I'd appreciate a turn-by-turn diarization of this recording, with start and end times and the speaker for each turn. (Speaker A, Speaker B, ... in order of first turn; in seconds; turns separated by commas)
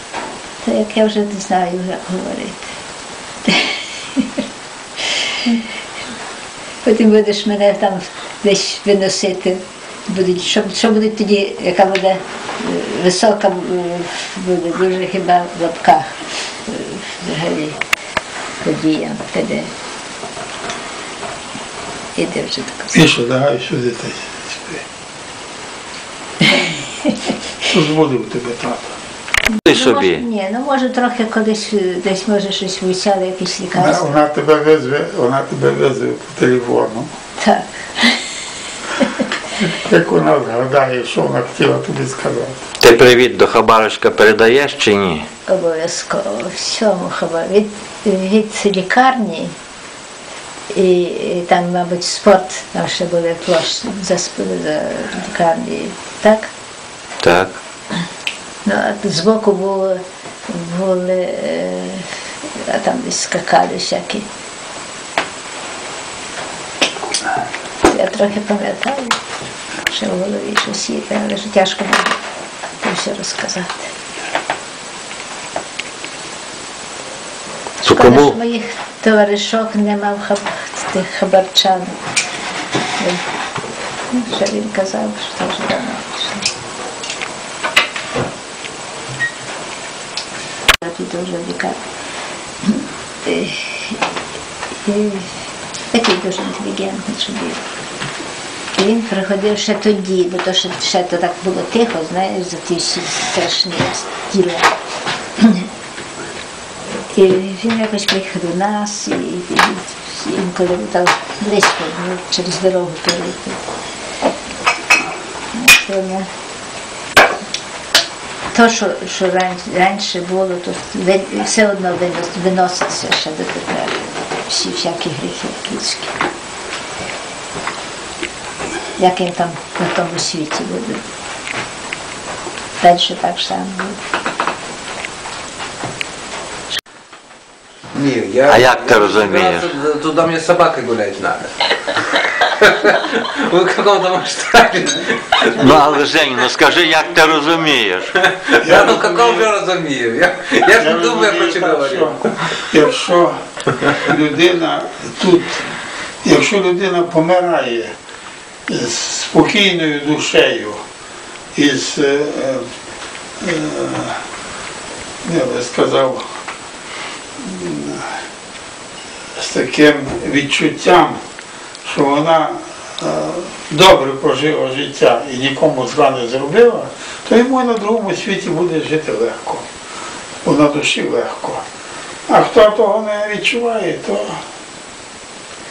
Speaker A: 0.6-2.6, Speaker A: 3.5-4.4, Speaker A: 6.8-17.8, Speaker A: 18.6-19.7, Speaker A: 22.1-23.0, Speaker B: 22.9-24.8, Speaker B: 27.6-28.9, Speaker A: 29.6-34.1, Speaker C: 29.6-30.2, Speaker B: 33.8-37.1, Speaker A: 37.4-38.2, Speaker B: 39.6-42.6, Speaker C: 42.8-45.2, Speaker A: 45.5-49.5, Speaker A: 50.7-56.5, Speaker C: 57.2-57.5, Speaker A: 58.6-64.2, Speaker A: 67.8-69.2, Speaker A: 69.8-72.2, Speaker A: 72.8-73.9, Speaker A: 77.8-81.9, Speaker C: 77.8-78.3, Speaker A: 83.0-83.2, Speaker A: 84.1-86.5, Speaker A: 90.8-91.8, Speaker A: 92.6-94.0, Speaker A: 94.8-95.3, Speaker A: 95.9-97.6, Speaker A: 98.7-104.7, Speaker A: 105.4-105.7, Speaker A: 107.1-113.6, Speaker A: 115.5-116.3, Speaker A: 118.5-126.2, Speaker A: 128.9-131.0, Speaker A: 132.8-134.0, Speaker D: 137.9-141.7, Speaker C: 138.5-139.7, Speaker D: 142.4-146.7, Speaker C: 145.5-148.1, Speaker D: 148.2-152.6, Speaker B: 148.6-149.5, Speaker B: 150.7-155.6, Speaker B: 156.2-157.9, Speaker B: 158.7-160.8, Speaker B: 161.5-162.7, Speaker B: 163.4-164.2, Speaker B: 165.2-166.2, Speaker B: 167.4-168.0, Speaker B: 169.3-171.2, Speaker B: 171.8-179.7, Speaker B: 180.4-181.6, Speaker B: 182.3-184.4